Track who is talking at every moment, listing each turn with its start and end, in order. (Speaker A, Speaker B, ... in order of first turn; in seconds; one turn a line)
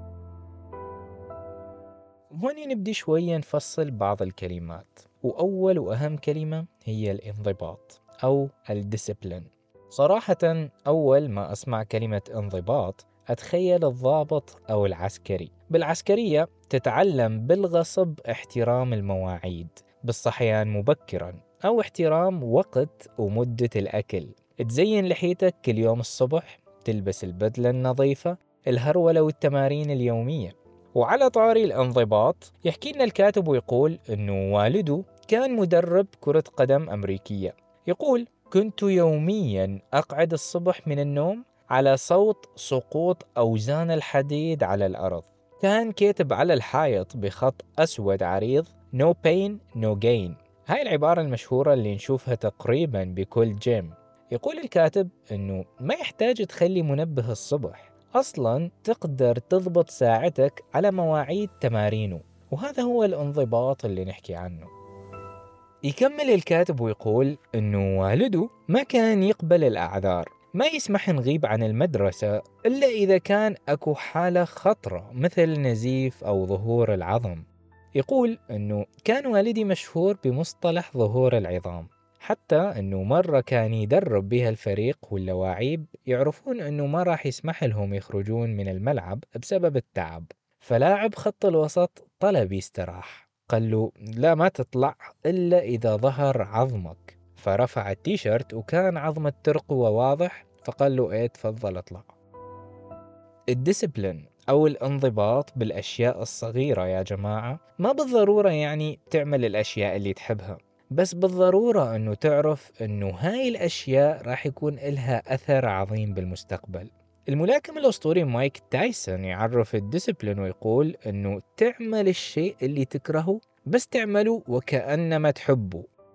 Speaker A: 2.3-64.7
Speaker A: 65.9-77.5
Speaker A: 78.0-102.1
Speaker A: 103.5-125.8